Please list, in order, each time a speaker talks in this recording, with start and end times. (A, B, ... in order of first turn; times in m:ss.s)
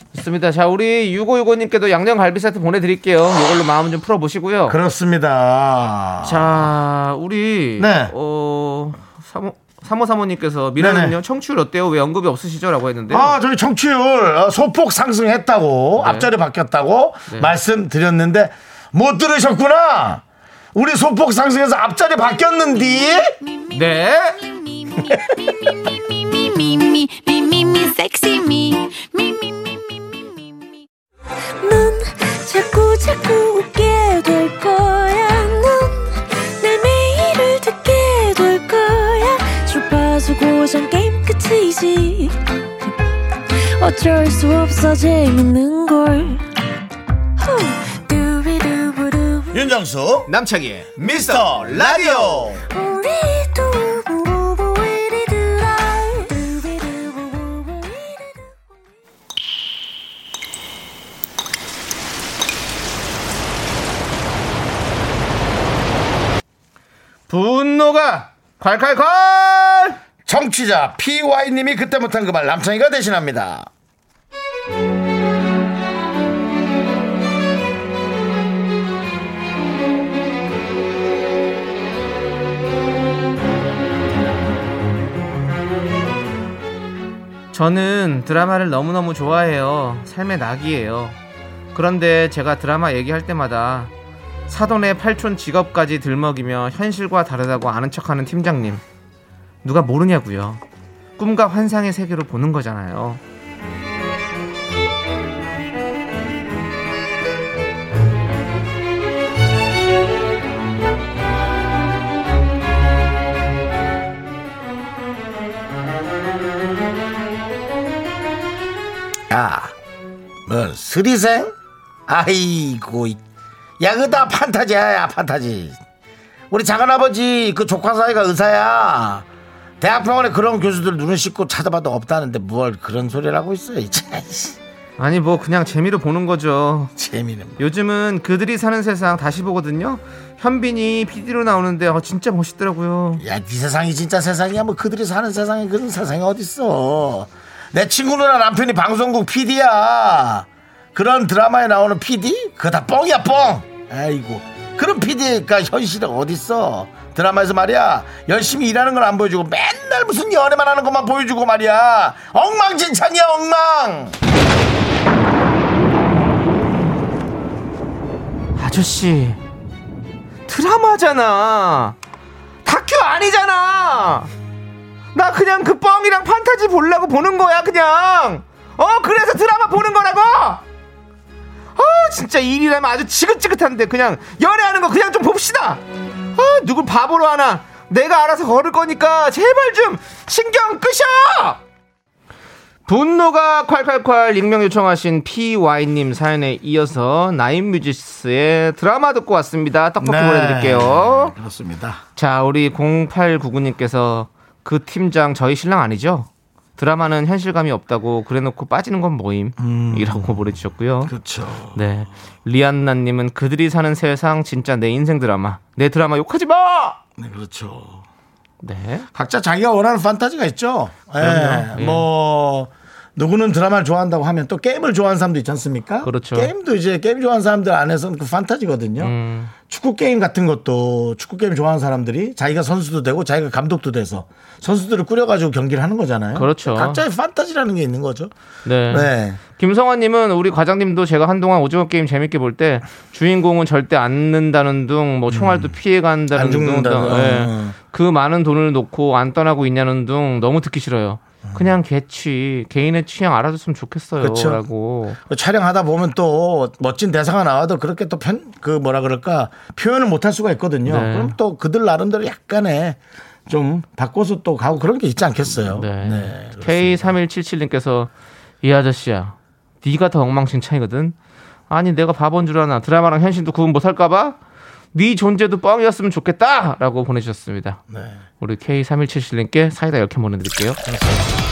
0:00.1-0:04.8 A
0:04.7-0:06.7 B
0:06.2-0:13.4 A
0:07.8-0:08.1 B
0:10.8-0:11.2 B
0:13.1-0:20.2 B
0:16.0-0:16.3 A
0:17.3-0:17.5 A
0:20.7-0:23.4 B
0:23.4-0:30.8 C
0:23.7-0:24.4 A
0:31.6-0:42.4 C
0:43.6-0:46.4 C
0:47.4-0:49.6 C
0:49.5-0:50.3 B
0:50.3-0:52.5 A
0:51.0-0:52.6 B
0:52.7-0:58.6 C
1:07.3-1:10.0 A
1:10.2-1:13.7 B
1:27.5-1:31.2 A
1:31.7-1:33.9 A
1:34.5-1:38.8 A
1:39.6-1:40.6 A
1:41.2-1:43.2 A
1:59.3-1:59.7 B
2:00.4-2:01.5 B
2:02.1-2:03.2 B
2:03.8-2:05.8 B
2:06.5-2:09.2 B
2:09.8-2:14.6 B
2:15.0-2:16.9 A
2:17.0-2:17.6 B
2:17.6-2:23.2 A
2:23.2-2:44.2 B
2:48.6-2:49.4 A
2:50.5-2:52.0 A
2:52.6-2:54.3 A
2:55.1-3:00.6 A
3:01.8-3:05.8 A
3:06.3-3:11.6 A
3:12.9-3:21.3 A
3:20.0-3:22.0 B
3:22.2-3:31.1 A
3:29.6-3:30.4 B
3:31.0-3:31.8 B
3:31.7-3:37.0 A
3:37.2-3:38.0 B
3:38.6-3:39.1 A
3:39.1-3:49.1 B
3:41.2-3:42.1 A
3:46.0-3:46.5 A
3:49.0-3:49.5 A
3:49.7-3:58.3 B
3:56.3-3:57.0 A
3:58.6-4:15.2 A
3:58.9-3:59.4 B
4:05.3-4:05.7 B
4:06.3-4:07.8 B
4:11.4-4:11.7 B
4:14.2-4:14.6 B
4:15.2-4:27.1 B
4:20.8-4:21.4 A
4:25.6-4:28.1 A
4:28.6-4:31.1 A
4:31.7-4:34.4 A
4:34.9-4:37.8 A
4:37.9-4:38.2 B
4:38.4-4:41.2 A